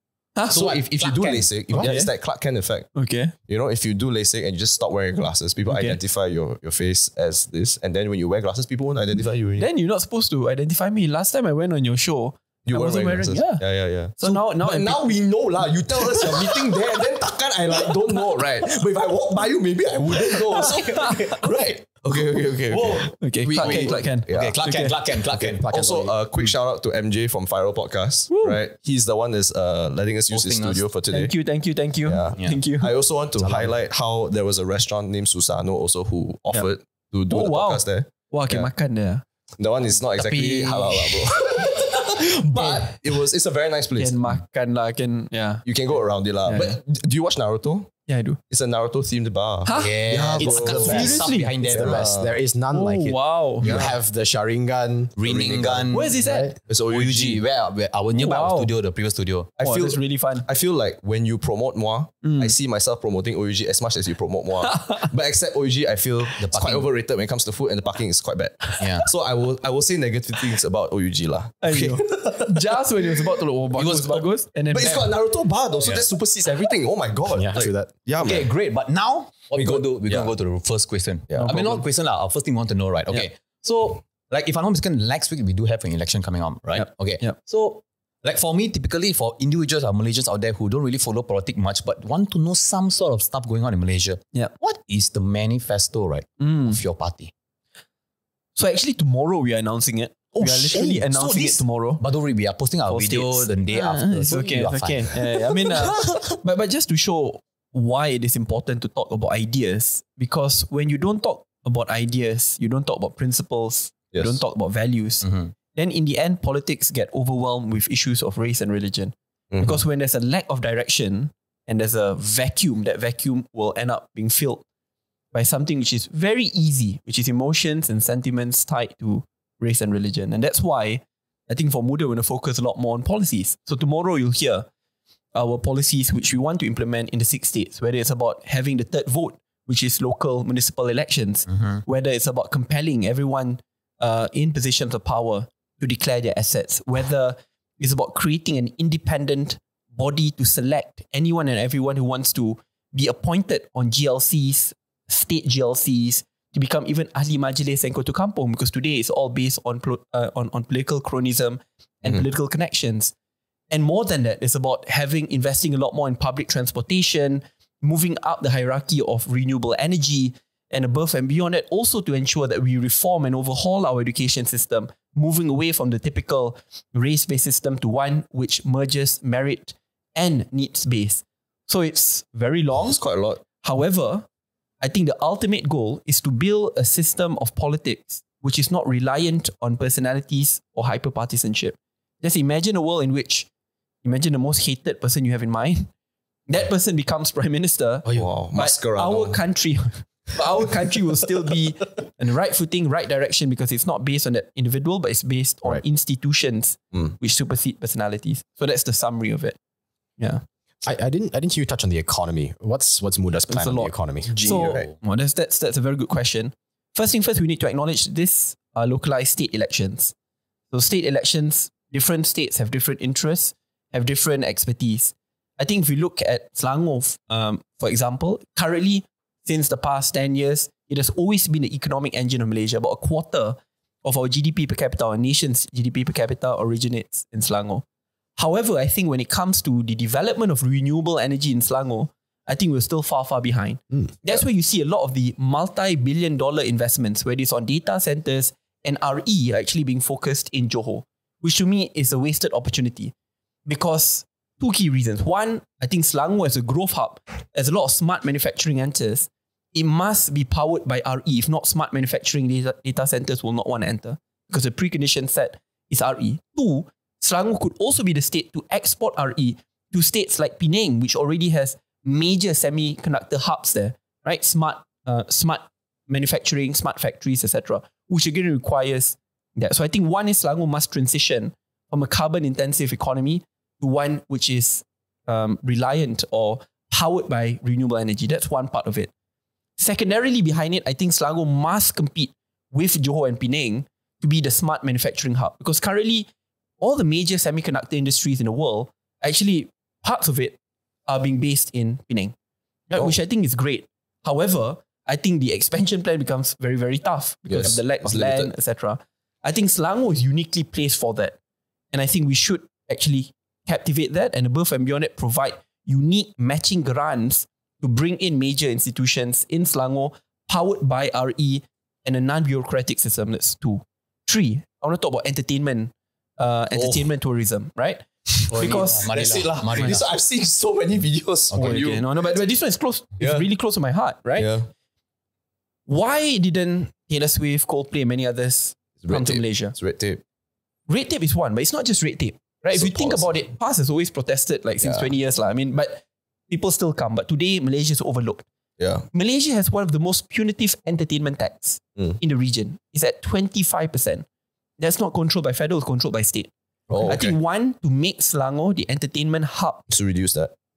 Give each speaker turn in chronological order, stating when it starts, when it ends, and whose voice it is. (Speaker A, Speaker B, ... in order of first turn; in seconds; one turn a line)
Speaker A: 0.3-0.9
Speaker B: 0.5-1.5
Speaker C: 0.6-3.0
Speaker A: 1.7-2.1
Speaker A: 3.0-3.3
Speaker C: 3.5-9.7
Speaker A: 5.7-6.0
Speaker A: 9.6-15.3
Speaker C: 12.7-24.6
Speaker A: 15.9-16.9
Speaker A: 20.1-21.4
Speaker B: 22.1-25.9
Speaker A: 23.2-25.0
Speaker C: 25.3-31.4
Speaker D: 25.6-26.1
Speaker A: 28.3-28.6
Speaker B: 30.3-30.9
Speaker A: 31.1-32.9
Speaker C: 32.1-38.7
Speaker B: 32.4-32.6
Speaker B: 33.4-33.7
Speaker A: 37.3-39.2
Speaker C: 39.6-44.2
Speaker B: 40.1-41.3
Speaker A: 41.5-41.9
Speaker A: 42.5-43.0
Speaker A: 44.0-45.6
Speaker C: 45.6-47.9
Speaker A: 46.4-46.8
Speaker A: 48.1-48.4
Speaker C: 48.5-52.4
Speaker A: 49.6-50.0
Speaker B: 49.7-52.1
Speaker D: 50.4-56.5
Speaker A: 50.9-51.5
Speaker A: 52.7-53.8
Speaker C: 53.6-53.9
Speaker B: 55.2-56.2
Speaker C: 55.2-55.9
Speaker A: 55.9-56.5
Speaker C: 56.7-57.4
Speaker B: 56.7-59.5
Speaker A: 58.1-58.7
Speaker C: 59.6-72.7
Speaker A: 59.6-60.5
Speaker A: 62.2-62.5
Speaker A: 64.6-65.1
Speaker B: 66.4-66.9
Speaker B: 68.8-69.1
Speaker A: 71.6-75.1
Speaker B: 73.7-74.3
Speaker C: 74.7-78.5
Speaker B: 75.8-76.1
Speaker A: 76.5-76.8
Speaker D: 77.3-77.9
Speaker B: 78.2-97.3
Speaker C: 79.6-80.3
Speaker C: 81.3-81.6
Speaker A: 81.4-81.9
Speaker A: 86.7-87.4
Speaker A: 96.4-96.8
Speaker A: 98.6-102.0
Speaker B: 100.3-105.3
Speaker A: 102.9-124.6
Speaker C: 114.1-114.4
Speaker B: 115.2-115.5
Speaker C: 119.5-119.8
Speaker A: 125.3-134.7
Speaker A: 135.3-163.1
Speaker B: 141.5-141.8
Speaker A: 163.7-183.0
Speaker C: 182.8-183.4
Speaker A: 183.6-184.3
Speaker A: 184.8-193.5
Speaker A: 194.0-195.9
Speaker A: 196.5-209.6
Speaker C: 198.1-199.4
Speaker A: 210.2-210.4
Speaker D: 210.8-214.7
Speaker A: 213.5-220.1
Speaker C: 214.3-214.9
Speaker A: 220.7-237.8
Speaker A: 238.4-253.1
Speaker A: 253.7-289.1
Speaker A: 289.8-296.3
Speaker A: 296.8-300.6
Speaker A: 301.1-302.3
Speaker A: 302.9-311.4
Speaker C: 307.5-308.5
Speaker A: 311.9-329.1
Speaker B: 328.5-330.0
Speaker C: 328.6-332.4
Speaker A: 329.7-330.0
Speaker B: 331.5-331.8
Speaker A: 331.6-334.5
Speaker C: 333.2-333.5
Speaker C: 334.4-334.7
Speaker A: 335.9-339.8
Speaker C: 339.0-340.2
Speaker A: 340.9-348.5
Speaker C: 342.7-343.4
Speaker C: 344.8-345.1
Speaker C: 348.8-349.1
Speaker A: 349.1-354.3
Speaker A: 354.8-356.5
Speaker C: 356.9-357.4
Speaker A: 357.0-359.8
Speaker C: 359.9-360.5